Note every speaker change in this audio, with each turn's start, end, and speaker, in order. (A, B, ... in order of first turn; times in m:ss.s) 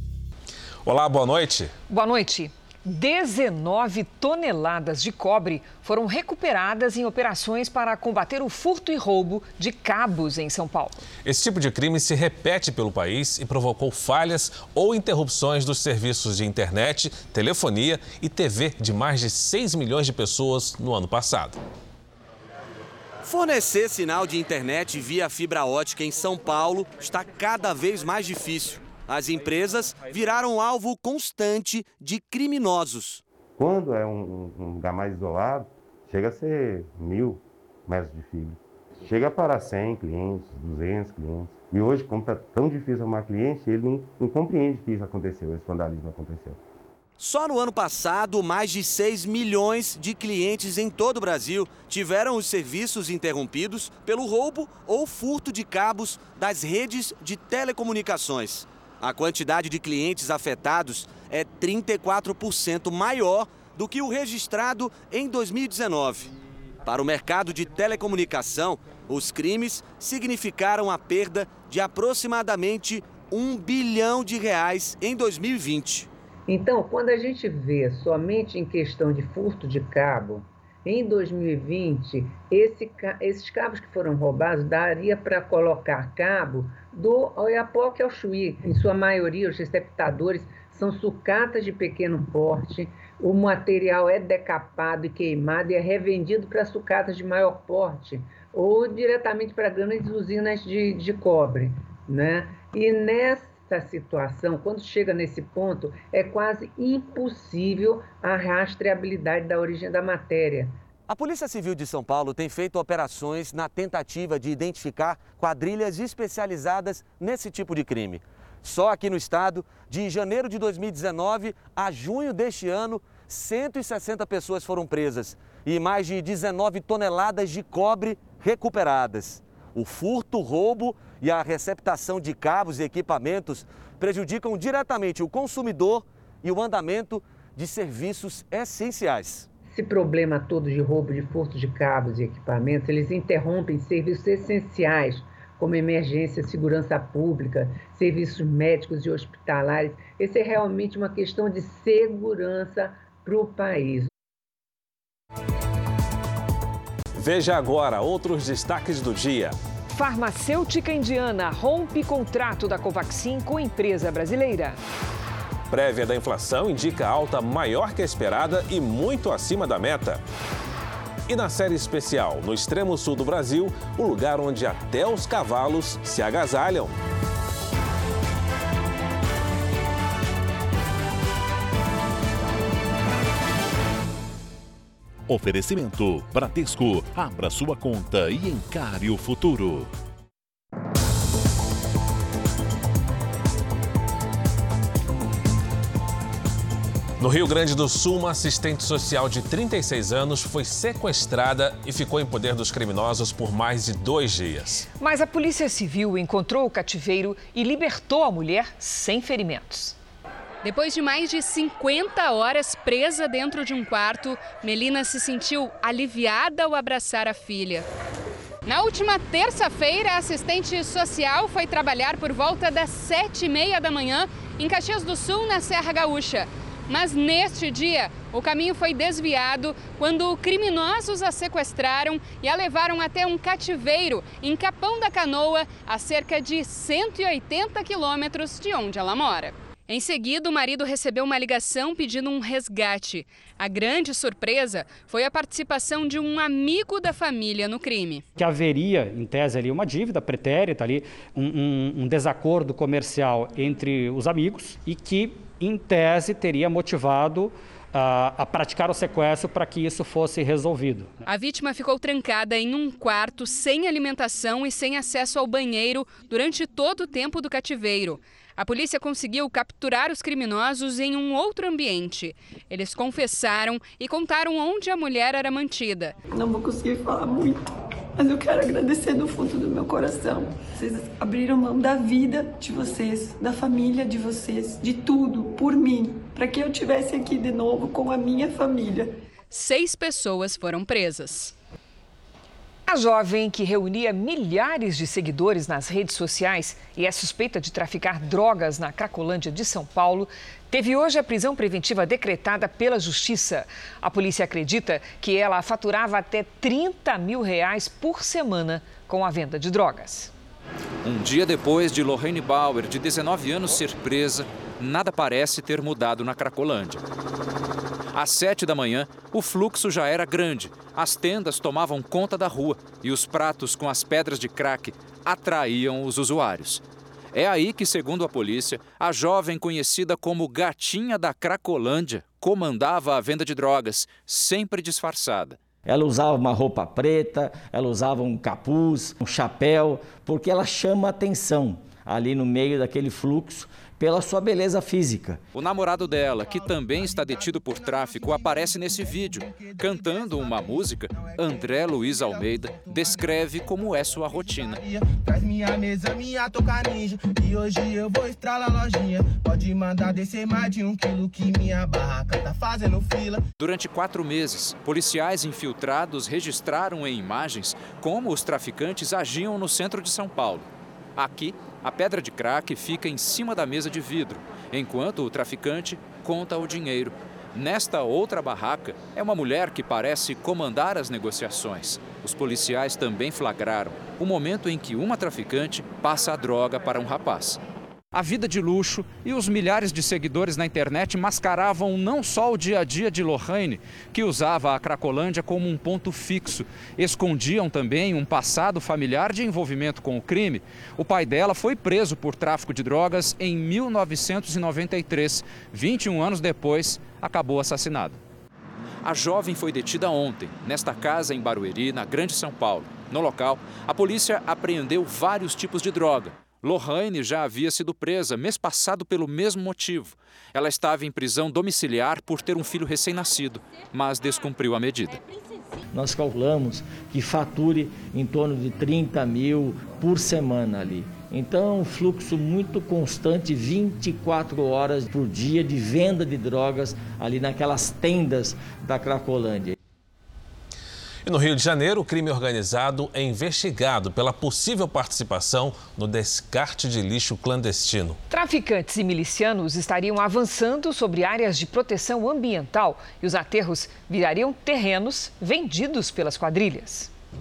0:00.8-0:01.7 A
0:01.9-0:11.0 B
0:11.2-0:21.6 A
0:23.2-0:33.2 C
0:33.6-0:46.6 D
0:47.2-1:06.3 C
1:06.8-1:16.1 C
1:16.5-1:50.7 E
1:51.1-2:19.5 C
2:19.7-2:34.1 E
2:37.1-2:39.6 A
2:39.9-2:44.8 B
2:45.7-2:50.2 A
2:51.3-2:56.9 A
3:05.3-3:09.9 F
3:17.2-3:24.9 A
3:25.0-3:30.0 B
3:30.6-3:37.8 G
3:38.7-4:08.2 G
4:08.4-4:21.2 H
4:21.2-4:36.1 G
4:36.3-4:49.1 I
4:49.5-4:51.5 G
4:52.9-5:10.3 B
5:11.0-5:17.0 J
5:18.1-5:35.6 J
5:35.8-5:45.4 K
5:45.5-5:54.8 J
5:46.5-5:49.8 I
6:03.6-6:27.6 J
6:28.1-6:48.2 J
6:49.0-7:05.2 J
7:05.9-7:19.7 K
7:21.2-7:28.2 A
7:28.3-7:37.1 B